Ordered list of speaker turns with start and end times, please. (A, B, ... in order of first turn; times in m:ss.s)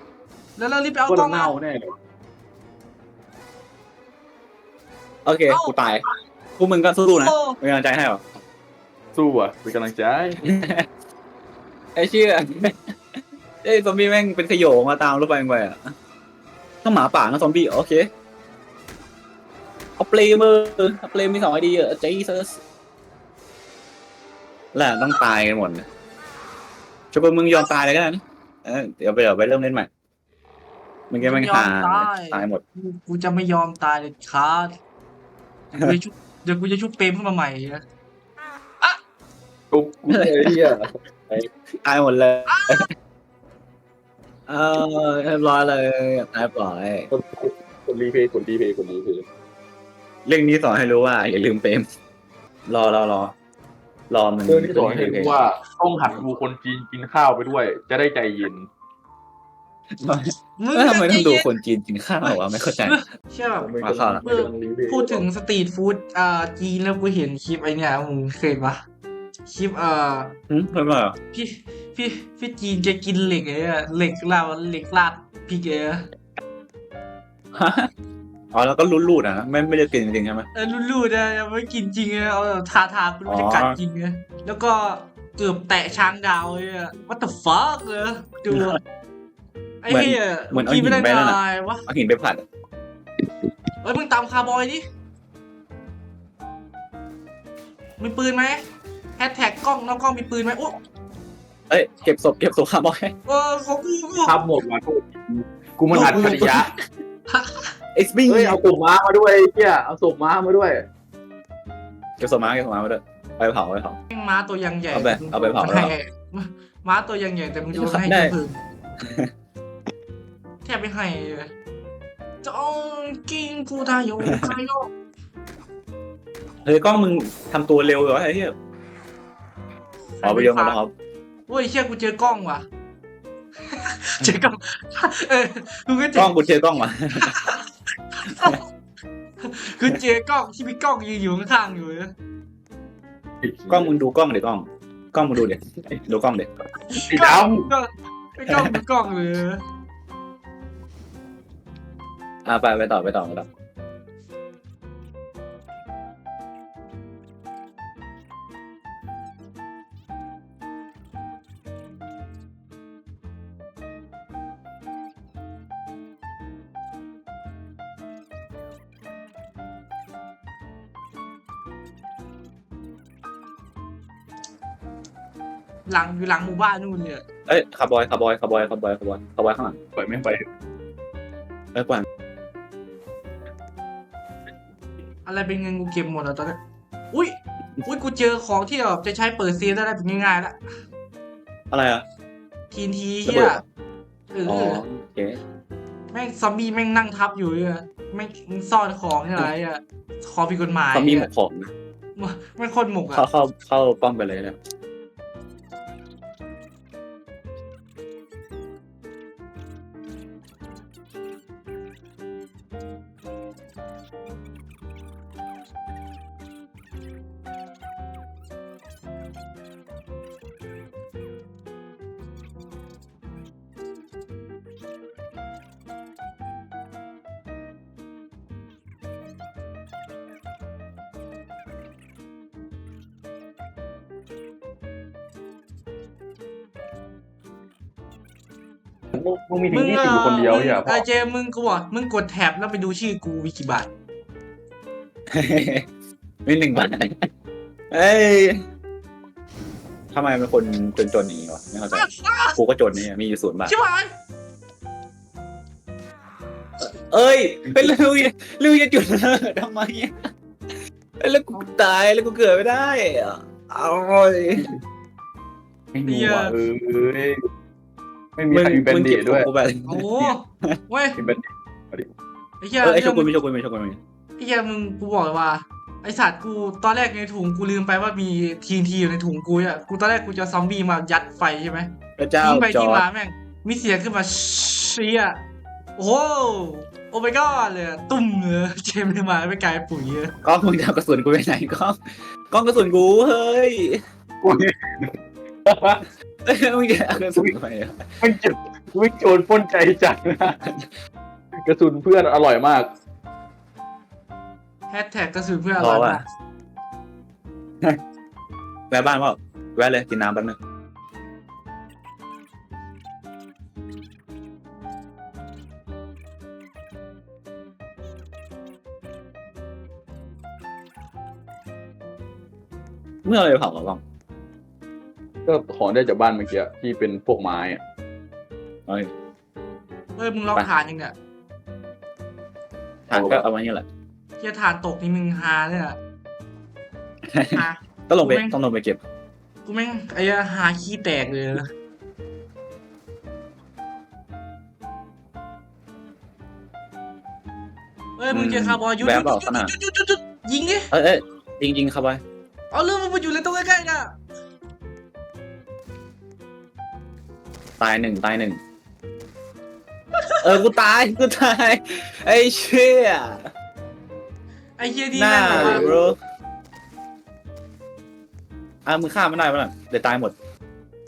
0:00.6-0:01.6 A
0:01.1-0:01.9 B
0:05.2-0:06.0 C
0:05.5-0:05.7 A
0:06.6-0:08.2 C
0:07.2-0:07.6 A
0:09.1-0:10.4 B
0:10.4-0:10.9 C
0:11.9-0:13.0 C
0:13.6-0:15.9 C
0:16.8-0:18.1 C
0:20.0-0:22.6 C
0:24.7-0:25.9 C
0:27.1-0:29.9 C
0:31.1-0:32.6 C
0:31.2-0:34.7 A
0:35.7-0:37.8 A
0:39.7-0:40.9 B
0:40.1-0:42.9 C
0:42.5-0:42.9 A
0:44.5-0:47.1 C
0:47.1-0:49.2 B
0:50.2-0:51.9 C
0:52.7-0:53.3 C
0:54.1-0:55.4 C
0:54.5-0:58.7 B
1:00.0-1:03.0 C
1:00.6-1:01.5 A
1:02.2-1:08.8 A
1:03.6-1:05.2 B
1:03.8-1:04.2 C
1:09.4-1:10.4 A
1:10.5-1:11.2 C
1:11.3-1:16.1 A
1:17.5-1:17.9 C
1:18.5-1:20.5 C
1:20.5-1:28.8 A
1:23.3-1:23.8 C
1:28.5-1:28.8 C
1:29.8-1:31.8 A
1:29.9-1:32.4 C
1:33.8-1:34.8 A
1:38.0-1:38.6 A
1:39.2-1:40.8 A
1:41.7-1:43.1 C
1:43.3-1:44.3 A
1:44.2-1:46.7 B
1:45.9-1:46.4 A
1:45.9-1:46.8 C
1:47.3-1:47.7 A
1:47.9-1:48.6 C
1:48.2-1:50.8 B
1:52.2-1:54.0 C
1:54.1-1:58.6 A
1:54.9-1:55.9 C
1:57.7-1:58.3 C
1:59.0-1:59.3 C
2:00.6-2:01.5 A
2:02.4-2:04.9 A
2:04.2-2:04.5 C
2:06.6-2:08.5 C
2:10.2-2:10.8 A
2:10.2-2:10.9 C
2:11.5-2:12.6 A
2:13.6-2:16.3 A
2:16.1-2:17.4 C
2:17.1-2:18.6 A
2:19.4-2:22.1 A
2:23.4-2:23.9 B
2:23.7-2:26.5 C
2:26.9-2:29.6 A
2:27.0-2:27.7 B
2:28.5-2:28.8 C
2:32.4-2:33.5 C
2:55.9-2:57.2 A
2:57.4-2:59.8 C
3:00.0-3:00.4 B
3:01.7-3:02.0 C
3:05.2-3:06.6 A
3:07.1-3:10.8 A
3:11.7-3:12.0 C
3:12.7-3:13.6 A
3:13.2-3:13.6 C
3:14.3-3:14.8 A
3:14.4-3:15.4 C
3:16.1-3:21.3 A
3:20.9-3:21.7 C
3:22.2-3:23.2 A
3:23.1-3:24.6 C
3:59.1-4:01.0 B
3:59.7-4:03.9 A
4:05.3-4:05.9 C
4:06.4-4:07.3 C
4:07.9-4:08.6 C
4:10.1-4:13.7 C
4:11.9-4:12.6 A
4:13.7-4:14.1 A
4:16.8-4:20.2 C
4:21.2-4:24.8 C
4:25.9-4:26.5 C
4:26.0-4:26.6 A
4:26.5-4:27.4 B
4:28.4-4:29.5 B
4:28.5-4:30.8 C
4:29.8-4:31.2 A
4:31.2-4:32.1 B
4:32.6-4:33.3 A
4:32.8-4:34.0 C
4:34.4-4:45.4 A
4:42.2-4:43.0 C
4:46.0-4:50.3 A
4:50.4-4:54.0 C
4:54.4-4:55.1 B
4:55.6-4:56.0 B
4:56.4-4:58.1 C
4:58.2-5:00.6 B
5:00.6-5:00.9 C
5:01.6-5:02.9 B
5:04.9-5:06.2 A
5:05.8-5:06.2 C
5:08.9-5:10.6 C
5:23.2-5:24.0 C
5:25.4-5:27.8 B
5:28.9-5:29.1 C
5:30.2-5:31.1 A
5:33.1-5:33.8 C
5:33.1-5:33.4 B
5:34.4-5:36.0 A
5:37.2-5:39.0 C
5:37.5-5:38.5 A
5:39.6-5:41.7 A
5:48.2-5:50.9 A
5:48.3-5:49.7 C
5:50.9-5:52.2 C
5:52.7-5:54.1 A
5:57.8-5:58.6 C
6:00.4-6:03.5 C
6:04.8-6:05.9 A
6:05.1-6:06.2 C
6:05.5-6:06.1 B
6:08.8-6:10.3 C